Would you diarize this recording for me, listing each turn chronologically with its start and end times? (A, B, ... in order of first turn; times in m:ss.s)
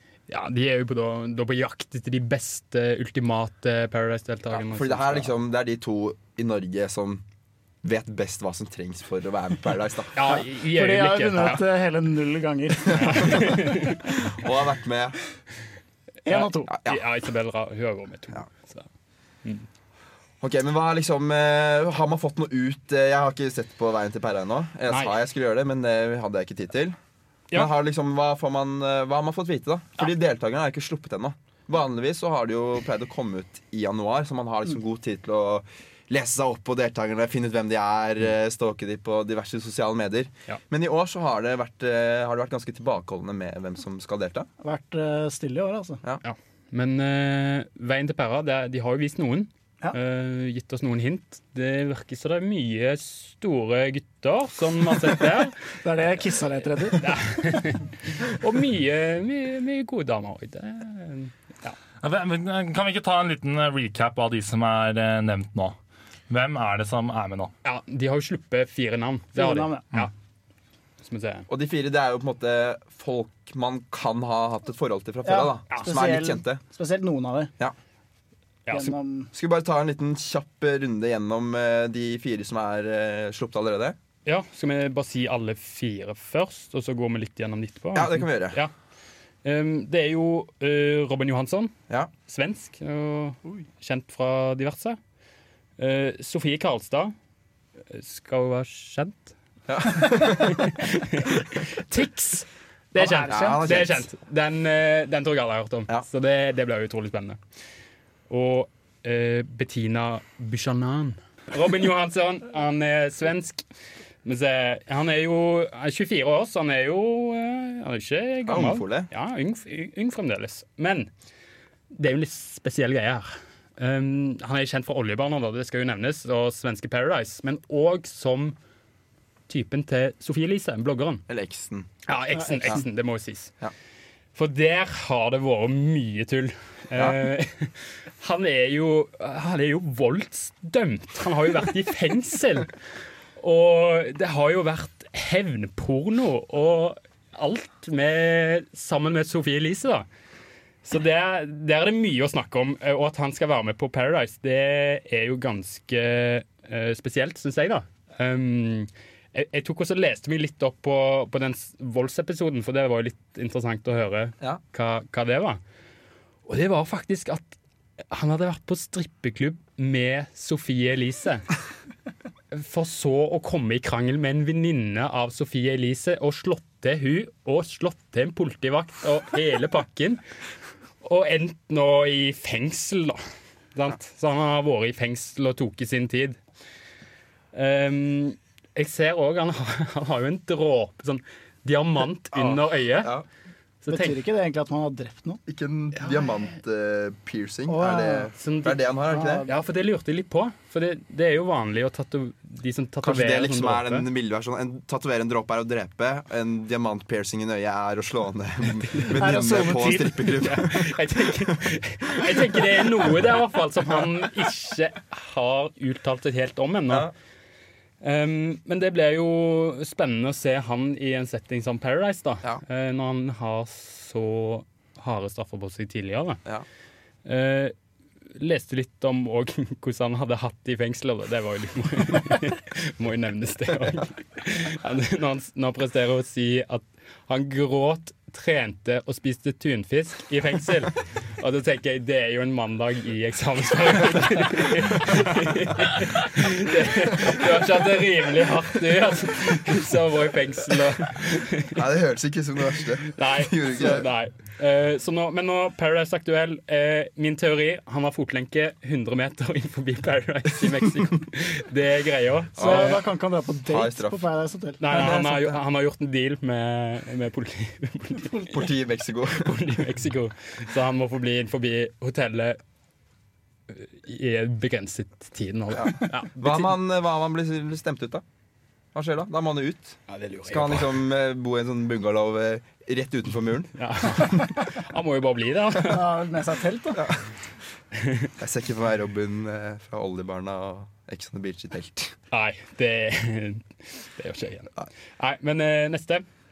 0:00.3-0:05.3 A
0:04.5-0:07.2 B
0:07.8-0:10.3 B
0:10.1-0:11.6 A
0:10.3-0:13.9 C
0:12.9-0:15.2 B
0:12.9-0:14.0 A
0:16.2-0:16.8 C
0:16.3-0:18.9 A
0:16.7-0:17.0 B
0:20.4-0:27.0 B
0:24.9-0:25.1 A
0:27.5-0:44.5 B
0:44.6-0:46.0 C
0:46.2-0:55.5 A
0:55.8-0:57.2 C
0:56.9-1:01.8 A
1:02.0-1:05.8 D
1:06.3-1:07.5 D
1:07.6-1:10.1 A
1:09.4-1:09.9 C
1:11.0-1:11.5 A
1:11.5-1:16.6 B
1:15.2-1:17.5 C
1:18.7-1:18.9 A
1:18.7-1:19.3 C
1:19.3-1:24.0 B
1:24.2-1:28.7 A
1:27.9-1:28.6 B
1:29.4-1:31.7 A
1:32.3-1:35.0 A
1:35.8-1:37.1 A
1:37.9-1:39.3 A
1:39.7-1:40.6 B
1:40.0-1:47.4 A
1:42.9-1:43.7 C
1:43.2-1:44.1 B
1:48.3-1:53.6 A
1:54.2-2:01.1 A
1:58.4-1:59.1 B
2:01.9-2:08.6 A
2:09.5-2:11.2 A
2:11.3-2:11.9 B
2:12.0-2:13.5 A
2:12.3-2:12.8 C
2:14.3-2:22.7 A
2:16.9-2:17.2 B
2:23.4-2:30.0 A
2:30.8-2:45.6 A
2:46.4-2:47.5 A
2:48.1-2:51.5 A
2:52.5-3:00.2 A
3:01.0-3:03.2 A
3:03.7-3:06.4 A
3:07.5-3:13.1 A
3:12.3-3:13.2 B
3:13.8-3:14.2 A
3:13.9-3:15.4 C
3:15.5-3:19.4 B
3:17.7-3:18.3 C
3:18.4-3:18.8 A
3:19.1-3:19.5 C
3:19.4-3:24.1 A
3:23.0-3:31.5 B
3:29.1-3:30.4 C
3:30.4-3:37.1 A
3:38.0-3:46.4 A
3:47.2-3:47.7 A
3:48.3-4:11.8 A
4:11.7-4:14.1 B
4:13.1-4:23.0 A
4:22.6-4:23.0 B
4:22.6-4:24.8 C
4:23.6-4:24.2 B
4:24.8-4:28.6 A
4:24.9-4:25.6 B
4:28.5-4:29.5 B
4:29.3-4:32.6 A
4:33.7-4:36.7 A
4:35.7-4:38.2 B
4:38.9-4:44.3 B
4:40.1-4:41.0 A
4:43.8-4:46.1 A
4:45.8-4:47.0 C
4:46.9-4:47.2 B
4:48.0-4:48.3 A
4:48.4-4:52.1 B
4:52.3-4:56.2 A